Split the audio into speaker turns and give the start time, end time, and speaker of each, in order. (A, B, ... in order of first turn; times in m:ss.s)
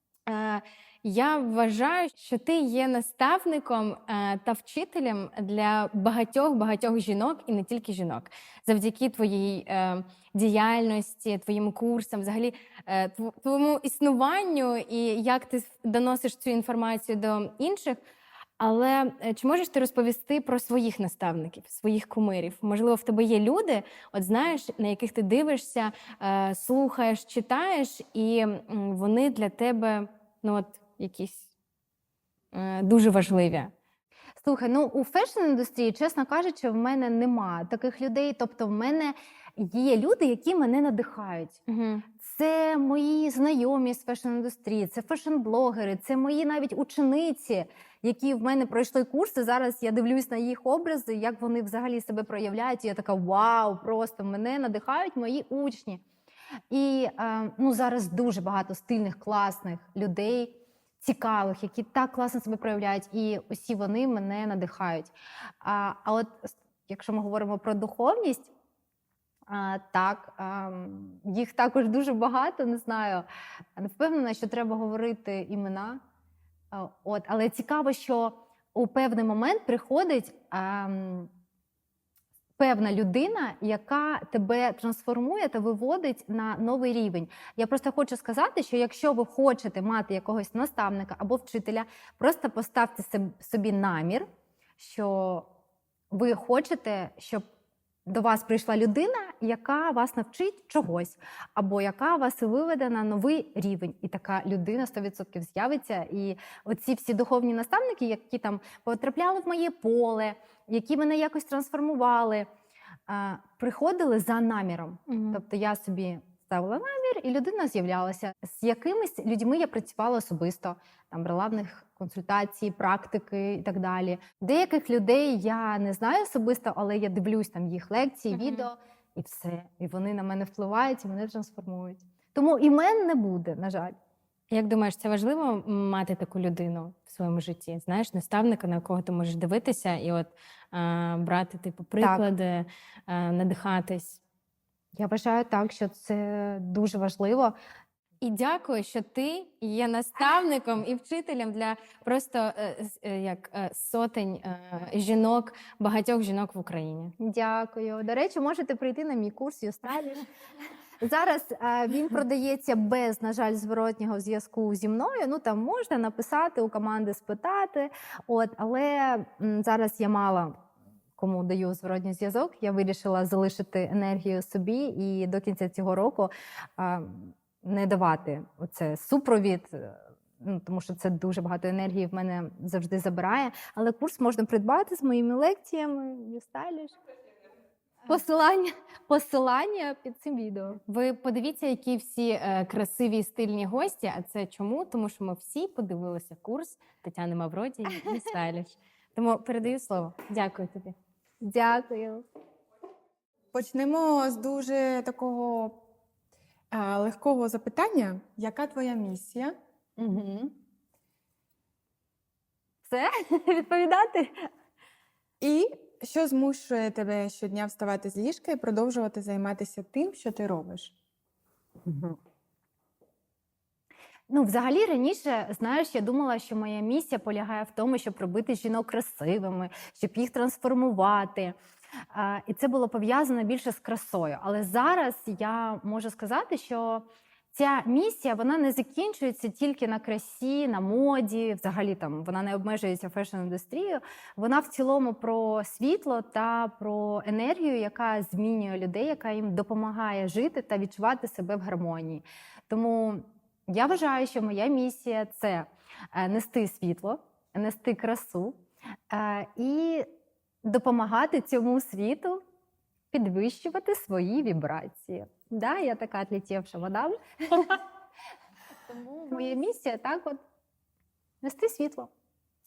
0:00.3-0:18.0 A
0:18.6-0:31.4 A
0:32.5-0:33.7 A
0:34.4-0:56.0 B
0:41.7-0:42.0 A
0:56.7-1:08.5 B
1:09.5-1:13.2 B
1:13.8-1:16.0 B
1:16.7-1:21.3 B
1:22.6-1:35.5 B
1:36.1-1:37.4 B
1:38.1-1:52.5 B
1:53.1-2:14.0 B
1:55.1-1:55.4 A
2:08.3-2:08.7 A
2:14.5-2:24.2 A
2:22.0-2:22.2 B
2:24.9-2:27.6 B
2:28.2-2:37.1 A
2:37.2-2:40.2 B
2:41.0-2:50.6 B
2:51.2-3:07.0 B
3:08.0-3:10.8 B
3:10.9-3:20.9 A
3:21.4-3:22.2 B
3:23.5-3:25.8 C
3:26.7-3:29.5 C
3:30.0-3:30.5 B
3:32.8-3:34.5 B
3:35.4-3:40.9 C
3:41.8-3:42.2 B
3:44.3-3:51.6 B
3:52.1-4:18.6 B
4:19.1-4:20.1 B
4:20.6-4:22.4 B
4:23.1-4:27.8 B
4:28.9-4:30.4 B
4:31.4-4:32.1 B